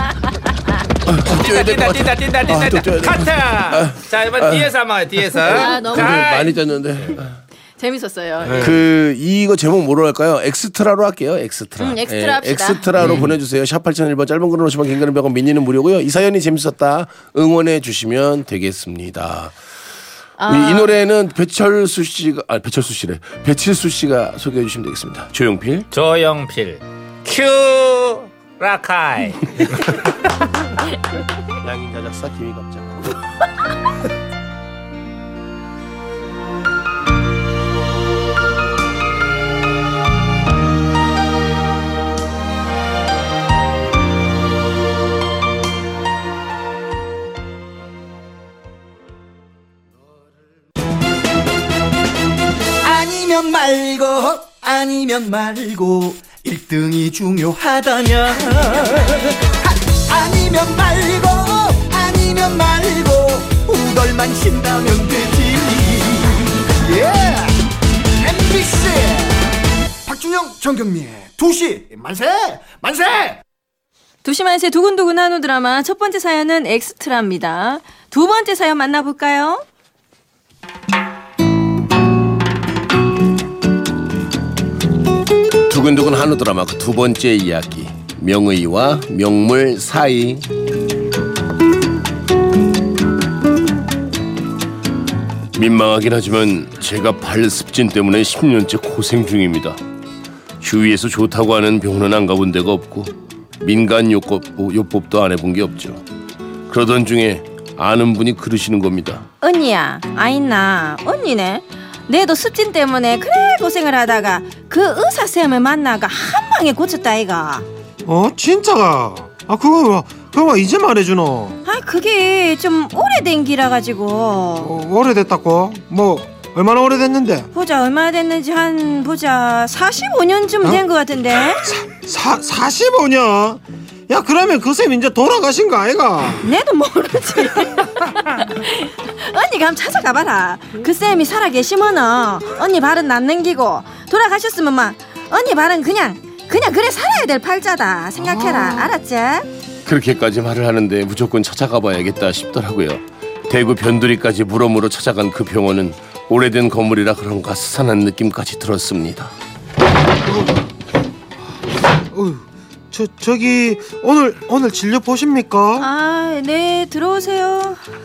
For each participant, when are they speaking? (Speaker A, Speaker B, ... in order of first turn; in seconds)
Speaker A: 1.1-4.7, 5.7-7.4, 8.5-19.6, 20.5-25.9, 31.6-33.2, 85.7-90.5, 95.6-99.8, 100.6-106.0, 106.7-109.3, 149.8-159.3
Speaker B: 1.3-6.4, 25.9-30.1
Speaker C: 5.5-6.6, 7.8-8.7, 11.8-12.8, 20.4-20.9, 74.2-79.6, 109.4-117.7, 121.7-124.7, 127.5-131.6, 136.4-149.5, 165.8-167.8
Speaker D: 52.8-67.6, 68.2-69.5, 70.0-73.4
Speaker E: 118.0-121.6, 124.6-127.5, 131.6-136.5, 160.3-160.6, 162.1-165.9